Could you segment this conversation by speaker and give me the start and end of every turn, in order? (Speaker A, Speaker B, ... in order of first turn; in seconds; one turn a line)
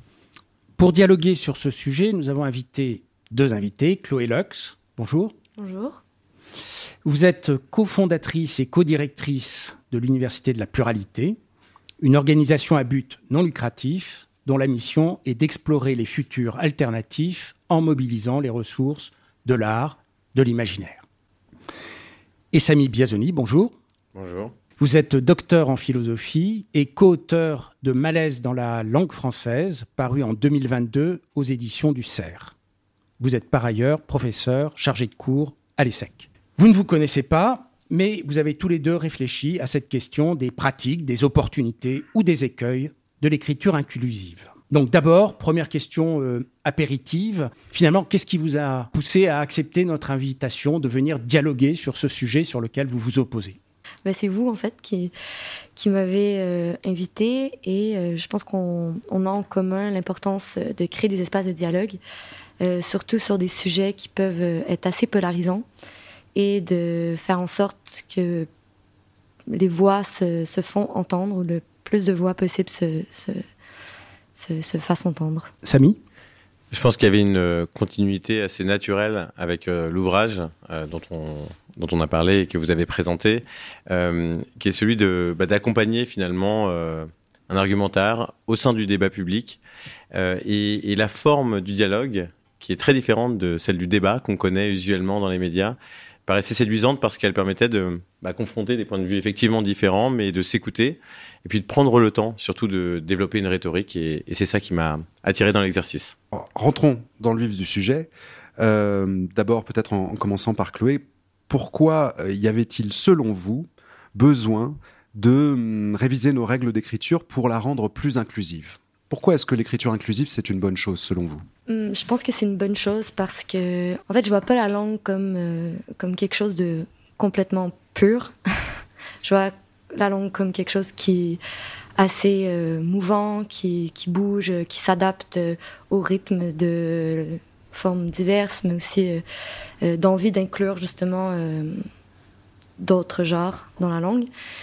Speaker A: 0.8-5.3
Speaker B: 5.6-6.0
Speaker A: 7.0-11.4
Speaker A: 12.0-21.0
Speaker A: 22.5-23.7
Speaker C: 24.1-24.5
Speaker A: 24.8-32.5
Speaker A: 33.2-53.6
Speaker B: 54.1-55.1
Speaker B: 55.8-62.0
Speaker B: 62.6-65.7
Speaker B: 66.3-68.5
Speaker B: 69.5-73.4
Speaker B: 74.4-75.5
Speaker A: 75.6-76.0
Speaker C: 76.7-89.6
Speaker C: 90.1-106.2
Speaker D: 106.3-121.5
Speaker B: 121.7-128.3
Speaker B: 129.2-131.4
Speaker B: 132.0-139.2
Speaker B: 139.8-141.8
Speaker B: 142.8-144.3